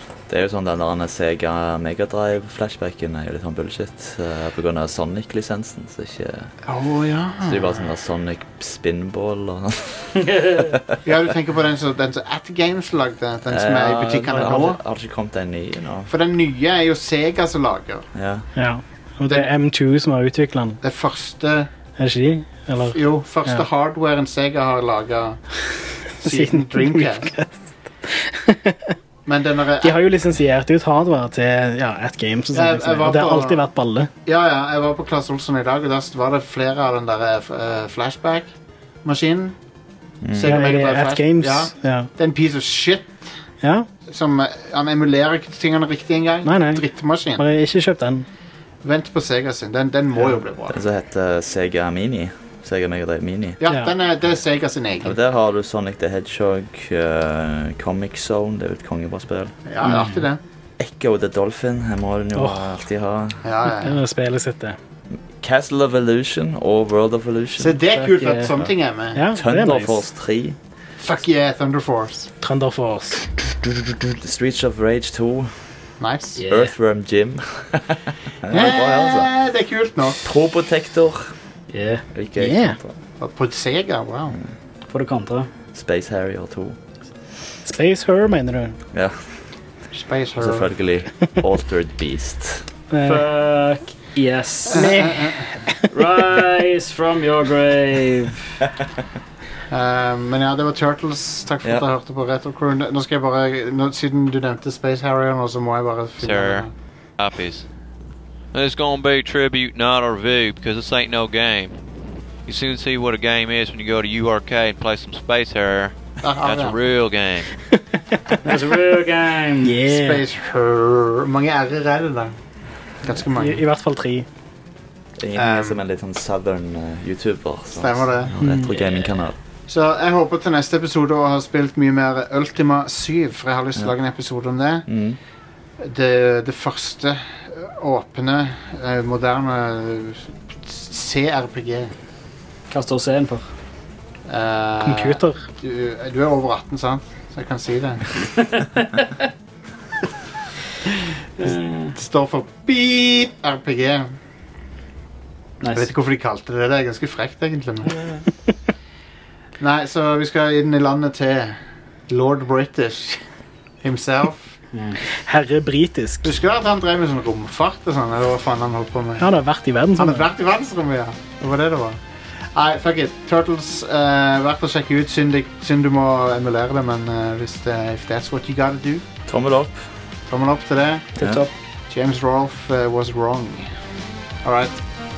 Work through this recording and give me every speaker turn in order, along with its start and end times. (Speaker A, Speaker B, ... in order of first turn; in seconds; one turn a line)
Speaker A: 0.3-6.5
Speaker B: 6.7-7.8
Speaker A: 7.4-10.8
Speaker C: 10.2-10.7
Speaker B: 11.0-14.8
Speaker A: 13.5-16.1
Speaker B: 16.1-18.1
Speaker A: 18.1-18.4
Speaker D: 18.5-20.8
Speaker B: 20.8-21.7
Speaker D: 22.0-23.6
Speaker B: 22.9-25.4
Speaker B: 26.1-27.3
Speaker D: 26.2-28.9
Speaker B: 29.2-30.0
Speaker D: 29.8-34.1
Speaker B: 32.5-33.6
Speaker B: 34.2-38.5
Speaker B: 39.0-39.5
Speaker A: 40.2-40.6
Speaker B: 40.3-43.2
Speaker D: 40.4-42.1
Speaker D: 43.6-43.9
Speaker B: 44.1-47.4
Speaker D: 46.4-46.8
Speaker D: 47.4-48.2
Speaker B: 48.8-50.8
Speaker A: 50.7-53.6
Speaker B: 53.6-55.1
Speaker A: 55.0-59.6
Speaker B: 59.7-60.4
Speaker C: 59.8-60.1
Speaker A: 60.8-63.4
Speaker D: 62.3-62.6
Speaker B: 63.4-64.0
Speaker D: 63.7-64.8
Speaker A: 65.1-67.8
Speaker B: 67.6-69.2
Speaker C: 67.9-68.5
Speaker D: 69.1-70.0
Speaker A: 69.3-70.6
Speaker B: 71.0-72.3
Speaker D: 72.4-73.2
Speaker A: 73.6-75.7
Speaker B: 76.0-76.4
Speaker C: 76.4-76.7
Speaker A: 76.4-79.3
Speaker B: 78.5-80.2
Speaker A: 80.2-81.3
Speaker C: 81.7-82.0
Speaker A: 82.1-83.0
Speaker D: 82.4-82.8
Speaker B: 83.2-84.4
Speaker C: 84.9-85.5
Speaker A: 85.7-86.8
Speaker D: 87.6-88.8
Speaker B: 89.9-90.7
Speaker A: 90.4-92.7
Speaker D: 92.9-93.2
Speaker C: 93.0-95.2
Speaker D: 94.7-95.9
Speaker B: 94.7-95.4
Speaker C: 95.9-98.6
Speaker B: 99.7-106.7
Speaker E: 106.2-107.7
Speaker E: 108.5-111.8
Speaker E: 112.4-117.6
Speaker B: 116.2-116.8
Speaker D: 117.8-118.2
Speaker C: 118.4-119.8
Speaker D: 119.6-120.2
Speaker B: 119.8-122.3
Speaker B: 123.0-123.6
Speaker D: 123.3-124.2
Speaker A: 125.2-129.3
Speaker B: 125.3-125.8
Speaker B: 127.8-128.4
Speaker C: 128.4-128.8
Speaker B: 129.7-134.9
Speaker A: 134.9-135.2
Speaker B: 135.8-141.9
Speaker C: 142.7-143.5
Speaker B: 144.3-148.2
Speaker D: 144.8-145.4
Speaker C: 151.4-151.9
Speaker B: 151.4-154.1
Speaker C: 155.6-155.9
Speaker B: 155.7-158.0
Speaker B: 159.6-161.6
Speaker B: 162.1-163.2
Speaker B: 163.8-164.5
Speaker C: 164.7-165.0
Speaker D: 165.1-166.3
Speaker B: 166.2-169.2
Speaker D: 169.2-170.3
Speaker B: 170.0-172.0
Speaker B: 172.5-179.1
Speaker A: 179.3-179.9
Speaker B: 180.3-181.1
Speaker C: 181.2-181.5
Speaker A: 181.2-181.4
Speaker B: 181.9-183.7
Speaker B: 184.4-184.8